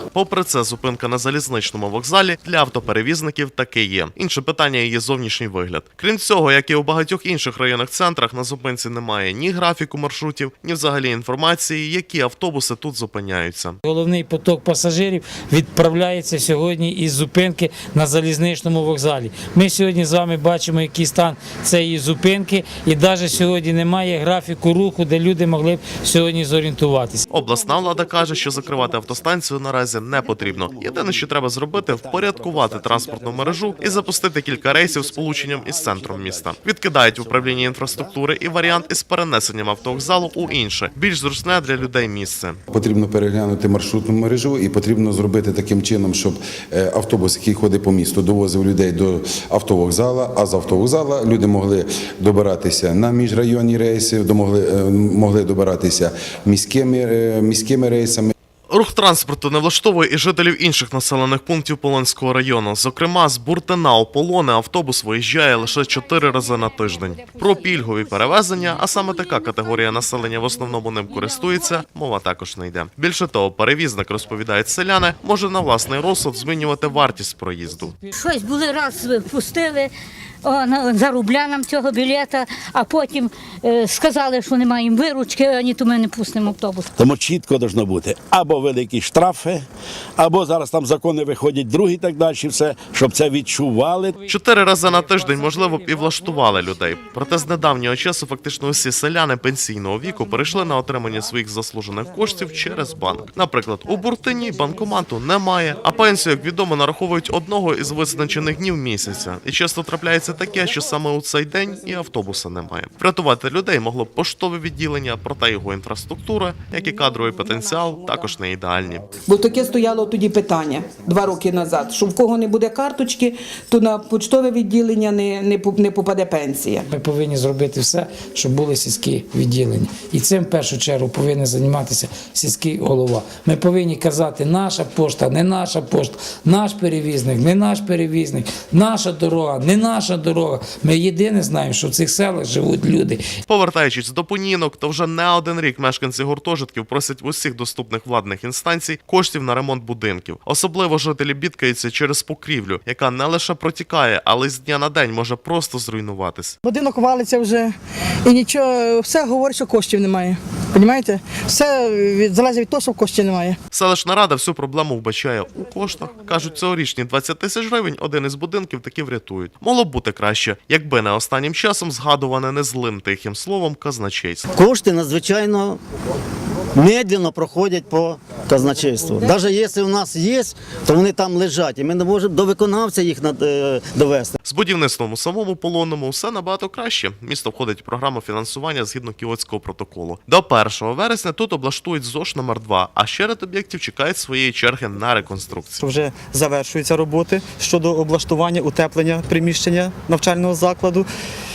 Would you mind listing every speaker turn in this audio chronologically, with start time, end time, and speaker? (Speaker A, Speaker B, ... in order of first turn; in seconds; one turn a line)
Speaker A: 0.1-13.8
Speaker B: 13.8-27.2
Speaker A: 27.3-42.6
Speaker C: 27.6-29.1
Speaker C: 30.2-38.1
Speaker D: 42.7-58.3
Speaker A: 58.7-77.9
Speaker E: 67.4-68.5
Speaker E: 78.1-79.9
Speaker E: 80.4-86.9
Speaker C: 87.0-89.6
Speaker C: 90.2-94.2
Speaker A: 94.3-119.0
Speaker F: 119.3-126.8
Speaker B: 126.9-143.2
Speaker A: 143.5-156.5
Speaker G: 156.6-157.7
Speaker G: 158.2-163.6
Speaker A: 163.7-174.5
Speaker H: 174.5-175.8
Speaker H: 176.7-184.3
Speaker A: 184.4-195.8
Speaker I: 195.8-201.1